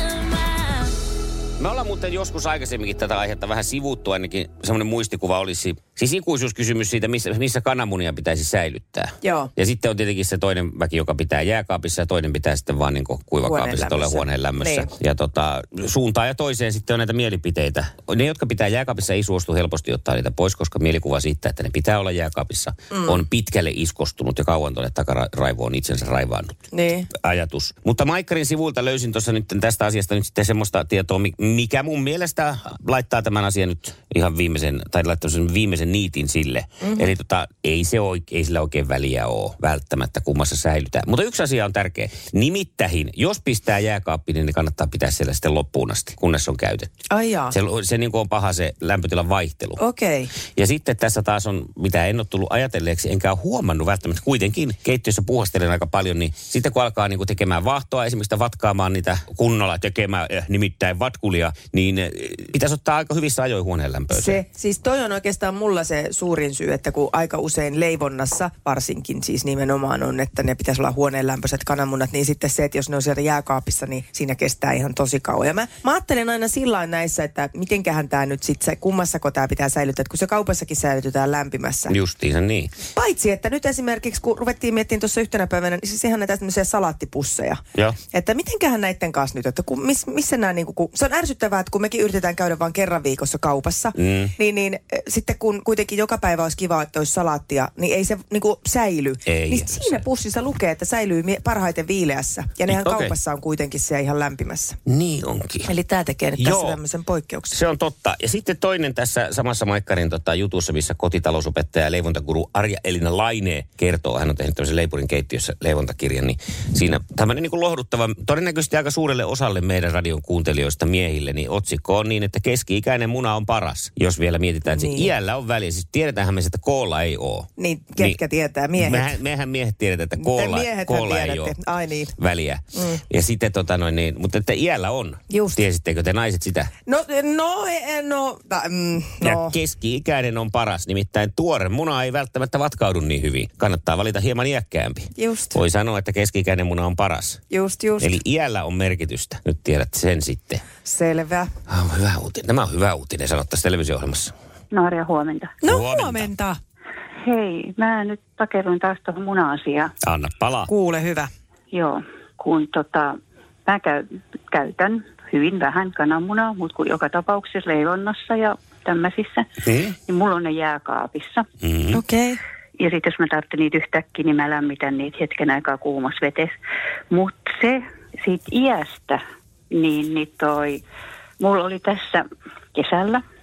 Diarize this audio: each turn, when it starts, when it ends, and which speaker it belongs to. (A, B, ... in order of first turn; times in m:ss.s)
0:01.6-0:26.5 A
0:09.2-0:09.5 B
0:13.4-0:14.9 B
0:22.9-0:23.2 B
0:26.7-0:27.1 B
0:27.1-0:46.9 A
0:36.8-0:37.1 B
0:47.1-0:47.5 B
0:47.5-0:49.8 A
0:49.8-0:50.3 B
0:50.5-1:04.4 A
1:04.1-1:22.0 B
1:21.9-1:22.7 A
1:22.9-1:27.6 B
1:28.1-1:44.8 B
1:33.9-1:34.3 A
1:39.2-1:40.0 A
1:42.7-1:43.1 A
1:44.8-1:45.7 A
1:45.6-1:47.6 B
1:46.4-1:46.8 A
1:47.5-2:07.5 A
2:04.7-2:05.1 B
2:07.6-2:09.2 B
2:08.8-2:11.6 A
2:10.2-2:12.1 B
2:12.2-2:16.7 A
2:12.7-2:13.0 B
2:15.3-2:15.6 B
2:16.8-2:19.6 B
2:19.2-2:27.4 A
2:25.1-2:25.6 B
2:27.5-2:28.2 B
2:28.0-2:30.6 A
2:30.8-2:31.5 B
2:31.7-2:34.3 A
2:34.7-2:35.5 C
2:35.6-2:36.6 B
2:35.6-2:36.3 A
2:37.2-2:39.9 C
2:40.0-2:40.7 A
2:40.7-2:41.3 B
2:41.7-2:43.1 C
2:43.6-2:49.4 C
2:49.6-2:50.0 A
2:50.1-2:51.4 C
2:51.6-2:52.0 A
2:51.9-2:52.4 B
2:52.8-2:56.5 C
2:57.1-3:00.8 C
3:01.4-3:02.2 C
3:02.7-3:03.2 C